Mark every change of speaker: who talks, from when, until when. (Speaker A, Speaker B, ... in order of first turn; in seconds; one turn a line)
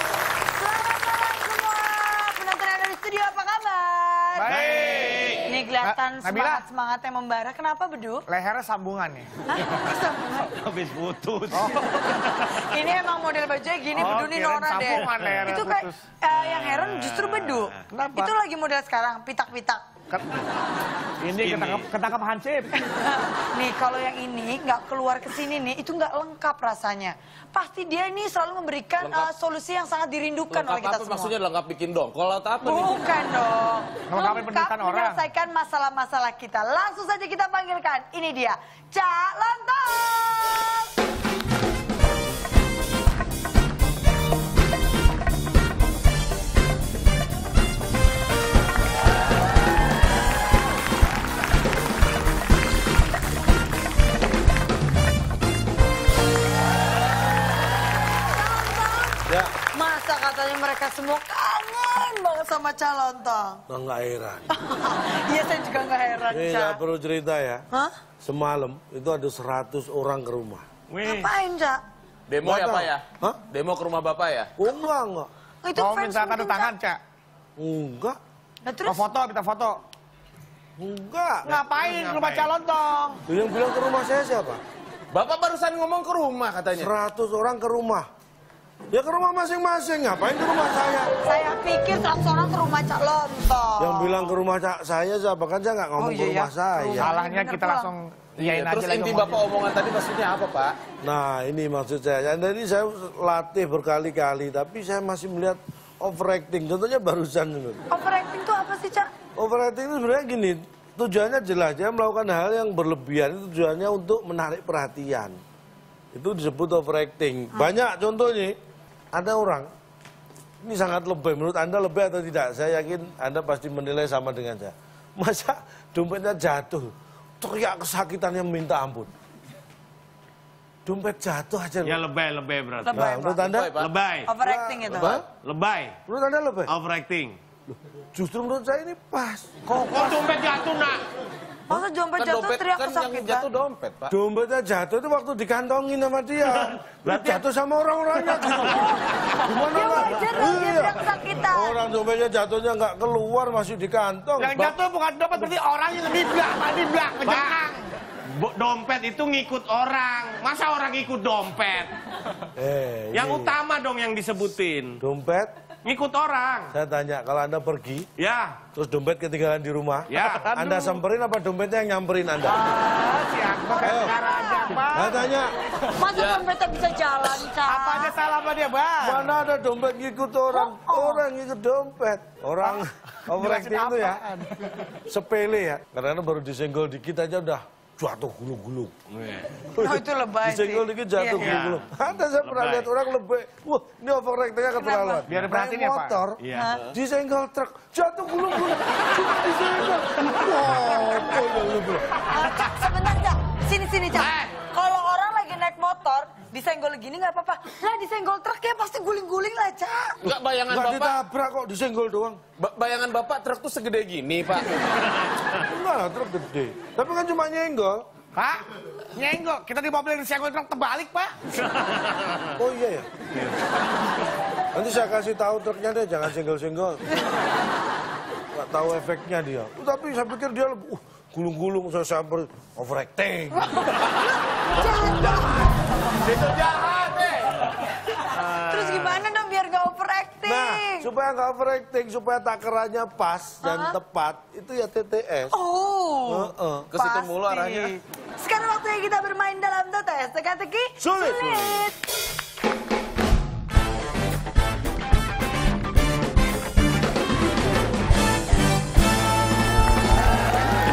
Speaker A: 0.5-4.5
Speaker B: 4.4-5.2
Speaker C: 4.5-5.5
Speaker A: 5.4-8.2
Speaker B: 5.8-6.6
Speaker B: 8.3-9.3
Speaker A: 9.5-10.6
Speaker C: 10.6-11.7
Speaker B: 11.6-11.8
Speaker A: 12.3-19.8
Speaker B: 14.0-16.0
Speaker C: 15.1-15.4
Speaker B: 17.9-18.3
Speaker B: 21.2-22.7
Speaker C: 21.3-21.9
Speaker A: 22.9-31.3
Speaker D: 29.0-29.3
Speaker D: 30.5-33.0
Speaker A: 32.6-40.9
Speaker B: 34.1-35.2
Speaker A: 58.3-63.6
Speaker E: 59.3-59.5
Speaker E: 63.7-64.5
Speaker A: 64.5-66.8
Speaker E: 66.3-67.6
Speaker E: 68.2-70.6
Speaker A: 71.0-71.8
Speaker D: 72.3-74.5
Speaker E: 72.4-73.4
Speaker E: 74.6-75.3
Speaker A: 75.6-76.7
Speaker B: 75.7-77.0
Speaker E: 77.6-78.2
Speaker A: 78.6-79.0
Speaker B: 78.8-79.8
Speaker E: 80.8-81.6
Speaker B: 81.5-83.2
Speaker C: 81.7-82.5
Speaker E: 83.3-84.6
Speaker D: 85.1-86.9
Speaker E: 86.7-88.1
Speaker E: 88.9-91.1
Speaker A: 91.2-94.3
Speaker E: 93.8-97.1
Speaker A: 96.0-97.9
Speaker B: 97.0-99.5
Speaker D: 98.4-100.8
Speaker E: 101.0-107.8
Speaker A: 107.9-109.1
Speaker E: 109.3-115.4
Speaker E: 116.1-118.5
Speaker E: 119.1-119.7
Speaker E: 120.6-129.1
Speaker E: 130.8-132.0
Speaker C: 131.8-133.0
Speaker A: 132.8-133.4
Speaker E: 132.9-133.7
Speaker D: 133.4-133.9
Speaker C: 133.8-134.3
Speaker A: 134.3-135.2
Speaker E: 134.4-135.2
Speaker C: 135.4-135.9
Speaker E: 136.1-136.7
Speaker C: 136.7-137.3
Speaker E: 137.7-139.5
Speaker C: 139.8-141.0
Speaker A: 141.7-143.5
Speaker D: 142.2-144.1
Speaker E: 144.1-154.7
Speaker C: 146.8-147.4
Speaker A: 149.7-151.8
Speaker B: 154.4-157.8
Speaker C: 157.2-157.7
Speaker C: 158.3-161.9
Speaker E: 162.6-163.6
Speaker C: 163.1-165.0
Speaker E: 165.0-165.5
Speaker C: 165.8-166.7
Speaker E: 166.7-168.1
Speaker C: 168.2-168.6
Speaker E: 168.7-172.7
Speaker C: 170.1-170.4
Speaker B: 170.4-171.0
Speaker B: 172.5-175.2
Speaker A: 173.7-174.8
Speaker E: 173.8-174.2
Speaker E: 174.9-175.5
Speaker A: 175.9-178.2
Speaker D: 176.1-176.4
Speaker B: 177.6-179.3
Speaker E: 179.0-184.3
Speaker A: 180.5-181.2
Speaker B: 183.3-184.5
Speaker E: 185.1-188.9
Speaker C: 189.2-189.4
Speaker E: 189.7-202.2
Speaker A: 189.8-191.6
Speaker C: 191.4-191.9
Speaker C: 192.4-192.9
Speaker A: 194.8-195.2
Speaker B: 195.3-196.2
Speaker A: 196.5-196.8
Speaker A: 202.3-210.2
Speaker C: 204.2-204.5
Speaker D: 210.2-211.2
Speaker E: 210.7-212.4
Speaker D: 212.6-214.7
Speaker E: 215.6-218.1
Speaker B: 218.3-218.6
Speaker B: 219.2-221.3
Speaker E: 222.6-223.1
Speaker E: 224.7-227.0
Speaker E: 228.5-233.8
Speaker A: 233.7-234.1
Speaker A: 234.7-236.2
Speaker D: 236.2-237.5
Speaker A: 238.2-241.1
Speaker E: 240.4-245.5
Speaker A: 243.6-243.9
Speaker A: 245.5-251.9
Speaker E: 246.2-246.9
Speaker D: 246.9-247.9
Speaker E: 251.0-251.8